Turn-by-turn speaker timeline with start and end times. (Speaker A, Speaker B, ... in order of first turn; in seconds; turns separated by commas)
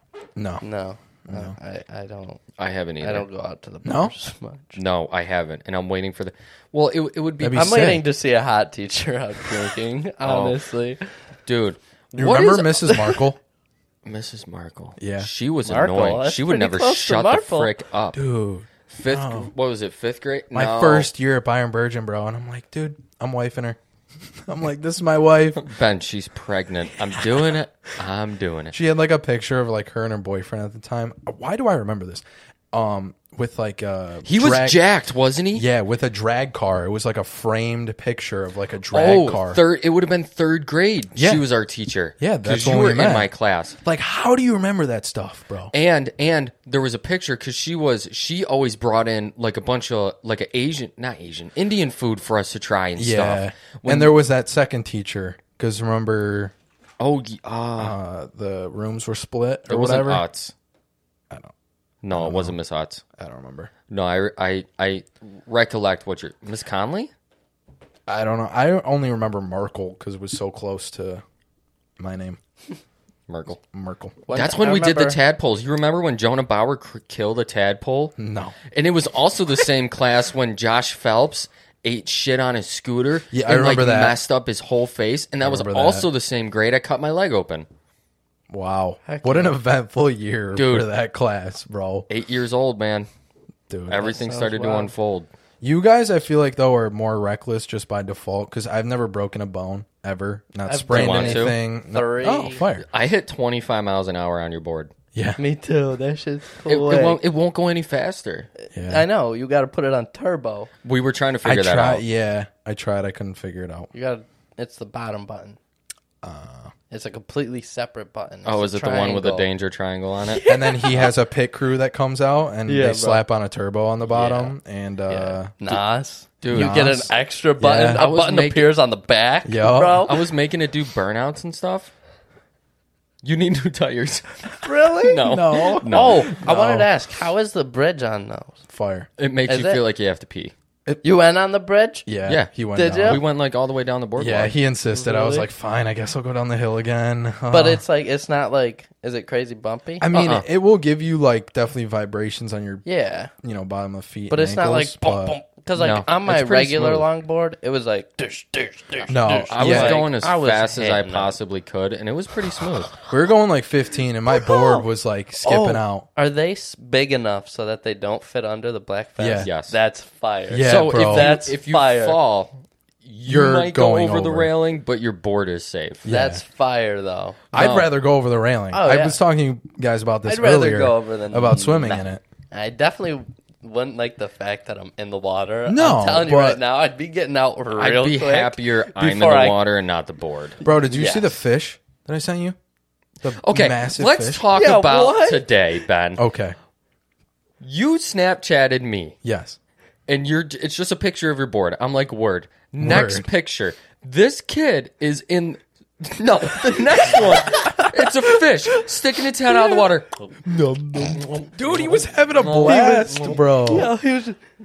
Speaker A: 0.4-0.6, Speaker B: 0.6-2.4, Speaker A: 1.3-1.6, Speaker C: 2.6-3.3, Speaker B: 3.0-4.8, Speaker A: 3.9-4.1, Speaker C: 4.8-8.0, Speaker A: 7.4-8.1, Speaker B: 7.5-11.0, Speaker C: 10.2-10.6, Speaker C: 11.5-12.8, Speaker A: 12.2-13.4, Speaker B: 12.8-13.2, Speaker C: 14.1-18.2, Speaker A: 15.0-15.3, Speaker B: 15.7-17.7, Speaker A: 18.1-19.5, Speaker C: 18.9-21.1, Speaker A: 20.5-23.8, Speaker A: 24.4-25.7, Speaker C: 25.6-28.8, Speaker A: 28.7-34.8, Speaker C: 34.2-35.7, Speaker A: 35.5-39.6, Speaker C: 38.9-43.8, Speaker A: 41.1-41.5, Speaker A: 42.2-43.3, Speaker A: 43.8-45.7, Speaker C: 45.7-54.1, Speaker A: 53.0-56.5, Speaker C: 57.0-58.0, Speaker A: 57.8-60.2, Speaker C: 59.7-60.5, Speaker C: 62.0-63.0, Speaker A: 62.1-62.6, Speaker A: 63.2-63.7, Speaker C: 63.9-67.1, Speaker A: 68.1-71.2, Speaker A: 72.0-72.4, Speaker C: 73.3-73.6, Speaker A: 73.6-74.2, Speaker B: 74.3-75.2, Speaker C: 74.3-78.1, Speaker A: 78.2-78.6, Speaker C: 78.7-87.7, Speaker A: 83.3-84.2, Speaker A: 85.4-86.1, Speaker A: 88.5-92.1, Speaker B: 89.0-89.6, Speaker C: 90.5-90.9, Speaker C: 92.1-93.1, Speaker A: 93.7-94.1, Speaker C: 93.9-95.3, Speaker B: 94.0-94.9, Speaker A: 95.6-102.9, Speaker B: 100.7-102.7, Speaker C: 100.9-101.6, Speaker C: 102.9-104.9, Speaker A: 105.1-105.4, Speaker B: 105.4-107.2, Speaker C: 106.7-108.5, Speaker B: 108.6-110.7, Speaker A: 108.7-109.1, Speaker C: 110.8-112.0, Speaker A: 111.4-113.9, Speaker B: 113.9-115.6, Speaker A: 116.2-116.7, Speaker B: 116.9-119.5, Speaker C: 118.5-120.4, Speaker B: 120.2-121.1, Speaker A: 120.5-125.6, Speaker B: 122.7-123.2, Speaker C: 124.1-124.5, Speaker B: 125.1-130.2, Speaker C: 126.4-127.0, Speaker A: 126.5-128.0, Speaker C: 127.9-128.8, Speaker A: 129.4-130.1, Speaker C: 130.1-131.9, Speaker C: 133.2-136.3, Speaker B: 134.6-138.6, Speaker A: 135.2-136.9, Speaker A: 138.7-139.1, Speaker C: 139.2-140.5, Speaker B: 139.5-139.8, Speaker B: 141.0-142.1, Speaker A: 142.1-143.2, Speaker C: 142.3-144.6, Speaker B: 142.7-143.2, Speaker A: 144.2-147.8, Speaker B: 144.9-145.5, Speaker B: 147.5-150.1, Speaker A: 150.0-152.8, Speaker C: 150.1-150.5, Speaker B: 152.8-153.3, Speaker A: 153.4-155.4, Speaker B: 154.3-161.4, Speaker C: 155.8-157.1, Speaker A: 159.1-160.0, Speaker C: 159.5-163.0, Speaker A: 163.1-166.1, Speaker B: 164.3-164.8, Speaker B: 165.4-172.2, Speaker A: 169.2-169.5, Speaker C: 169.4-169.8, Speaker A: 170.5-171.4, Speaker C: 170.6-176.0, Speaker A: 173.3-174.5, Speaker A: 176.0-176.4, Speaker B: 176.1-177.4, Speaker C: 177.5-177.9, Speaker A: 177.5-182.2, Speaker B: 178.7-179.2, Speaker B: 180.3-189.6, Speaker A: 185.7-186.6, Speaker C: 187.8-190.6, Speaker A: 190.6-192.6, Speaker B: 190.9-191.4, Speaker A: 193.2-194.4, Speaker C: 193.4-196.2, Speaker B: 194.5-195.4, Speaker A: 196.2-196.6, Speaker C: 197.6-199.2, Speaker A: 199.2-199.6, Speaker C: 200.1-210.3, Speaker A: 202.8-203.3, Speaker B: 206.9-207.9, Speaker A: 210.4-213.9, Speaker C: 211.1-213.4, Speaker B: 212.4-214.4